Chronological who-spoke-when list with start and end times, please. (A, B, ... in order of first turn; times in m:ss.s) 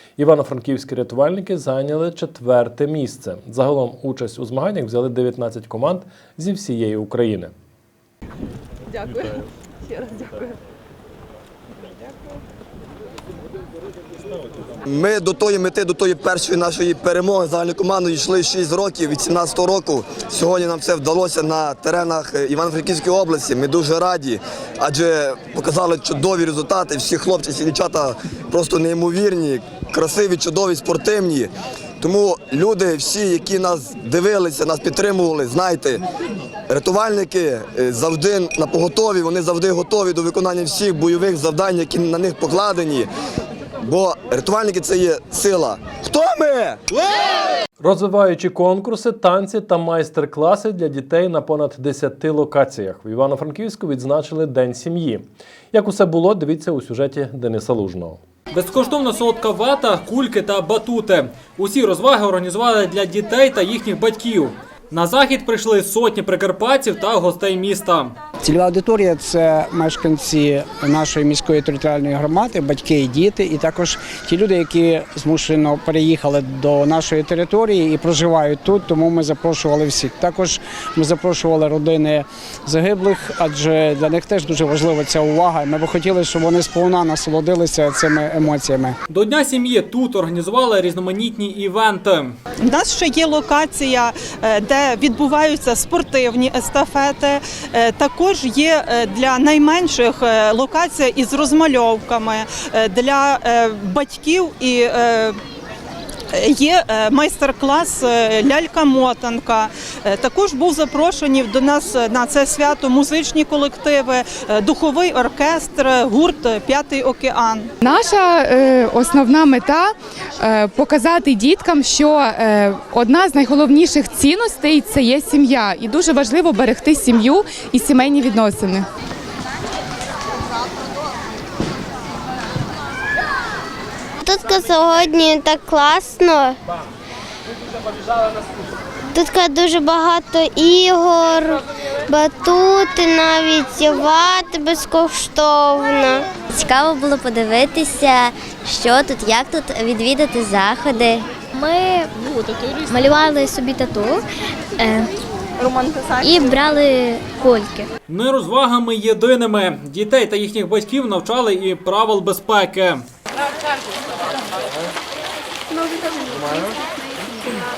0:00.2-0:07.5 A
0:14.9-0:36.0 B
0:36.7-0:43.1 B
0:43.8-0:46.8 B
0:47.8-0:58.2 A
0:58.5-1:08.1 C
1:08.4-1:29.0 D
1:29.1-1:32.3 C
1:32.6-1:45.4 E
1:46.3-1:57.7 E
1:57.8-2:08.9 F
2:14.2-2:16.6 G
2:19.1-2:26.3 G
2:26.4-2:32.1 H
2:32.8-2:34.2 H
2:34.8-2:35.1 H
2:36.2-2:37.9 H
2:38.1-2:43.0 C